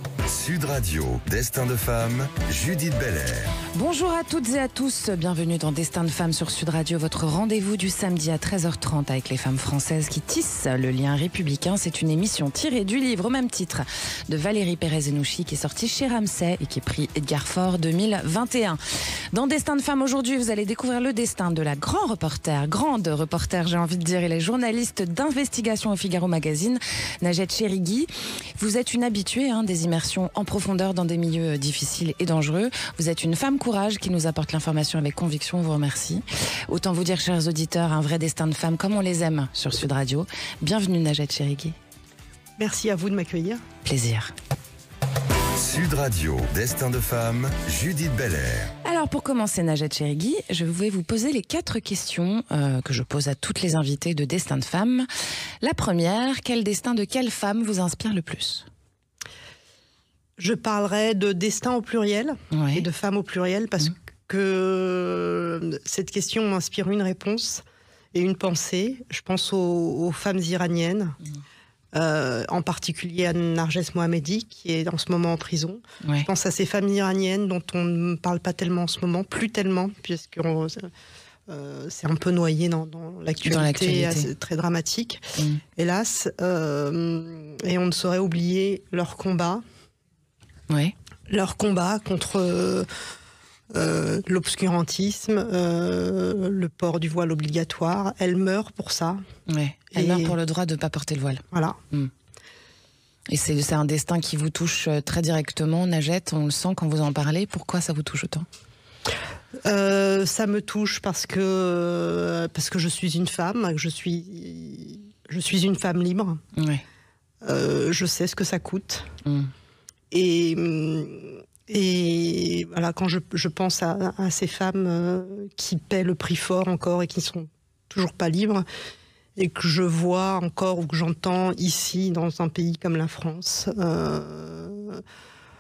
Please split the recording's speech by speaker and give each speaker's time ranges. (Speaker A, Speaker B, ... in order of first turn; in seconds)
Speaker A: 0.3-3.5, 45.6-48.7
Speaker B: 3.7-18.8, 19.3-41.8, 43.8-44.3, 48.8-55.1, 55.6-58.7, 62.5-62.9, 76.0-76.3, 83.5-84.3, 85.4-85.6, 99.5-102.1, 103.3-108.5, 116.5-116.8, 119.2-119.5
Speaker C: 42.6-43.6, 60.4-71.2, 71.9-80.9, 81.5-89.6, 91.3-92.9, 93.7-99.2, 99.9-100.4, 101.5-101.8, 109.6-116.4, 117.4-119.1, 120.1-128.7, 129.4-135.0